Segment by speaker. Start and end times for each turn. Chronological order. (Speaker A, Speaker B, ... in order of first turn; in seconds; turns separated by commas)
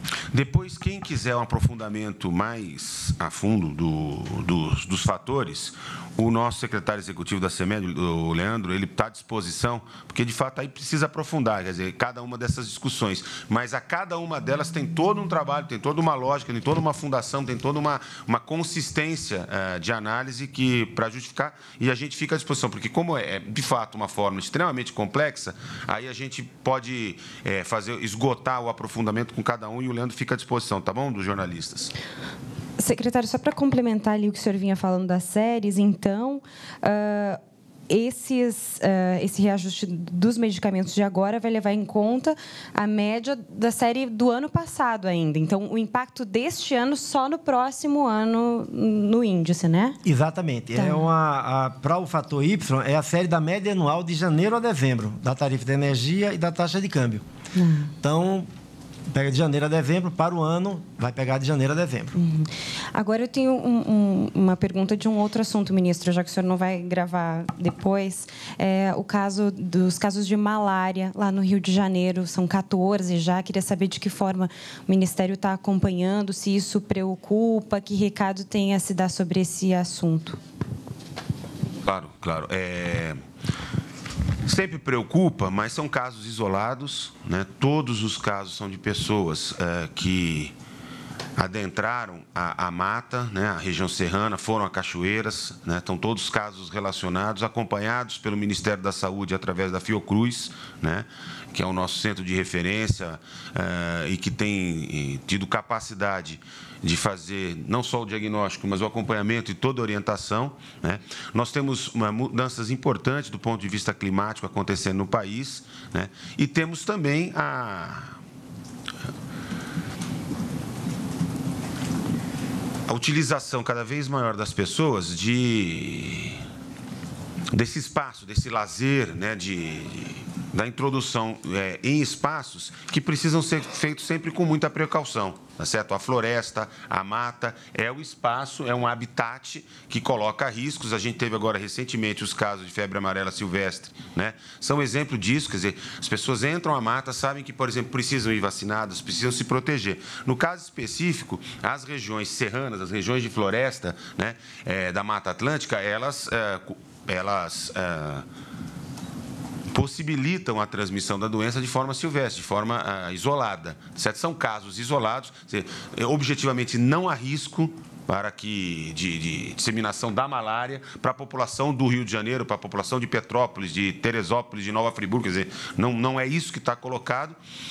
Speaker A: 0.3-31.9, Speaker B: 32.8-50.0, Speaker C: 50.0-57.2, Speaker B: 50.8-51.1, Speaker B: 57.5-57.9, Speaker C: 58.0-58.5, Speaker C: 59.1-62.1, Speaker B: 62.1-80.4, Speaker A: 81.8-83.2, Speaker A: 84.5-90.5, Speaker A: 91.4-118.2, Speaker A: 122.9-126.4, Speaker A: 127.5-158.3, Speaker A: 159.7-177.4